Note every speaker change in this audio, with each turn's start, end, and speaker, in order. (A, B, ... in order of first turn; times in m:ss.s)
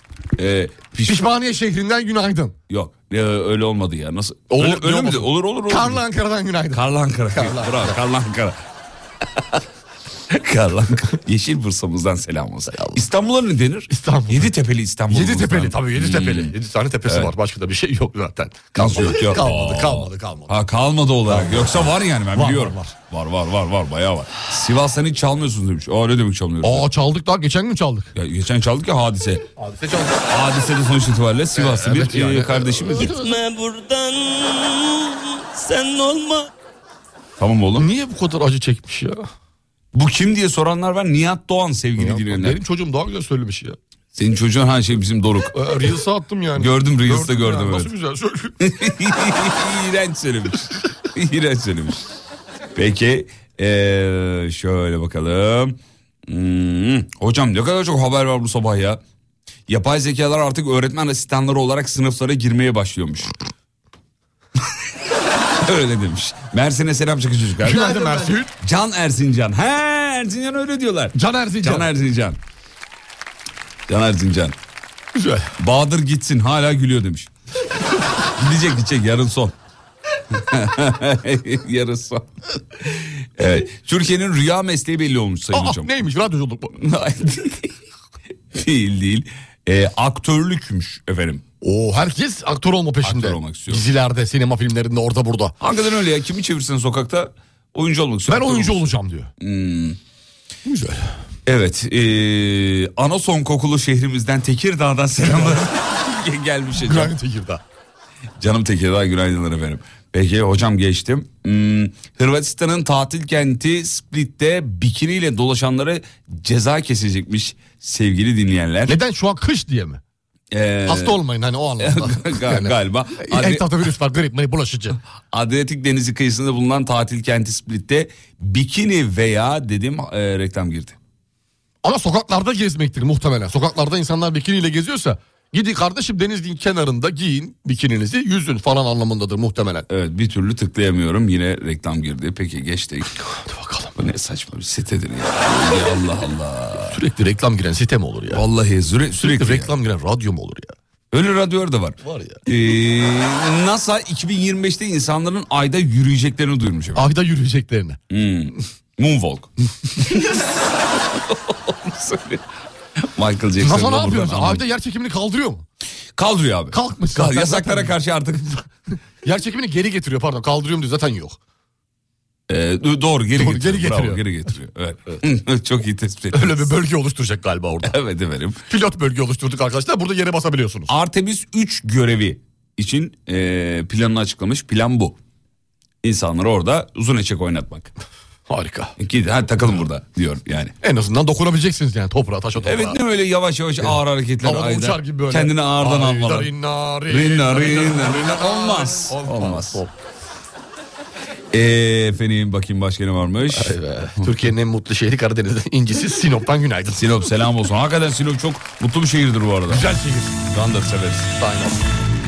0:00.4-0:01.3 A
0:01.1-0:02.6 B
0:02.7-0:06.0 A
0:04.5-0:08.0 B
0:06.7-0:08.6 A
0:09.4-0:09.6 A
0:10.3-0:16.5 A
0:13.9-0:14.5 B
0:15.1-0:20.6 B
0:17.1-0:17.3 A
0:18.8-0:26.9 A
0:21.3-0:23.0 B
0:26.6-0:28.1 B
0:28.2-0:29.4 A
0:29.6-0:30.2 B
0:30.3-0:33.2 A
0:31.6-0:33.4 B
0:33.0-0:36.5 C
0:37.4-0:37.9 A
0:37.8-0:39.3 B
0:39.9-0:42.6 A
0:42.0-0:43.8 B
0:44.1-0:45.6 A
0:45.5-0:48.6 B
0:46.6-0:47.9 A
0:48.6-0:52.0 A
0:52.8-0:59.0 A
0:59.7-1:03.3 A
1:05.6-1:12.4 A
1:07.6-1:08.5 B
1:11.2-1:11.9 B
1:13.9-1:14.6 A
1:15.2-1:15.5 B
1:15.6-1:17.3 A
1:18.4-1:19.6 A
1:20.3-1:25.9 A
1:25.5-1:26.8 B
1:26.8-1:27.7 A
1:28.5-1:31.4 A
1:31.6-1:35.5 B
1:33.0-1:33.8 A
1:35.6-1:40.0 A
1:38.3-1:39.3 B
1:40.7-1:41.1 B
1:41.5-1:47.1 A
1:45.3-1:45.7 B
1:46.8-1:47.6 B
1:48.4-1:59.0 A
1:58.9-2:00.0 B
2:00.5-2:01.2 A
2:00.9-2:05.0 B
2:01.8-2:03.7 A
2:05.3-2:11.0 A
2:11.8-2:19.9 B
2:19.9-2:23.1 A
2:23.4-2:23.9 B
2:24.0-2:27.0 A
2:26.9-2:28.4 B
2:28.3-2:29.7 A
2:29.2-2:30.7 B
2:31.1-2:37.1 A
2:32.0-2:32.4 B
2:37.0-2:38.0 B
2:38.1-2:42.4 A
2:43.0-2:44.6 A
2:43.6-2:45.6 B
2:46.2-2:48.6 A
2:46.7-2:47.9 B
2:49.2-2:51.4 B
2:52.5-2:56.7 A
2:53.4-2:54.2 B
2:56.3-2:58.0 B
2:57.8-2:58.6 A
2:58.7-3:00.9 B
3:00.9-3:05.2 A
3:06.0-3:07.9 A
3:08.5-3:09.0 B
3:09.0-3:10.7 A
3:10.8-3:13.0 B
3:12.6-3:16.5 A
3:13.8-3:19.9 B
3:17.1-3:19.8 A
3:21.5-3:24.3 A
3:23.5-3:27.0 B
3:27.0-3:29.8 A
3:29.7-3:30.4 B
3:30.5-3:31.3 A
3:31.4-3:31.8 B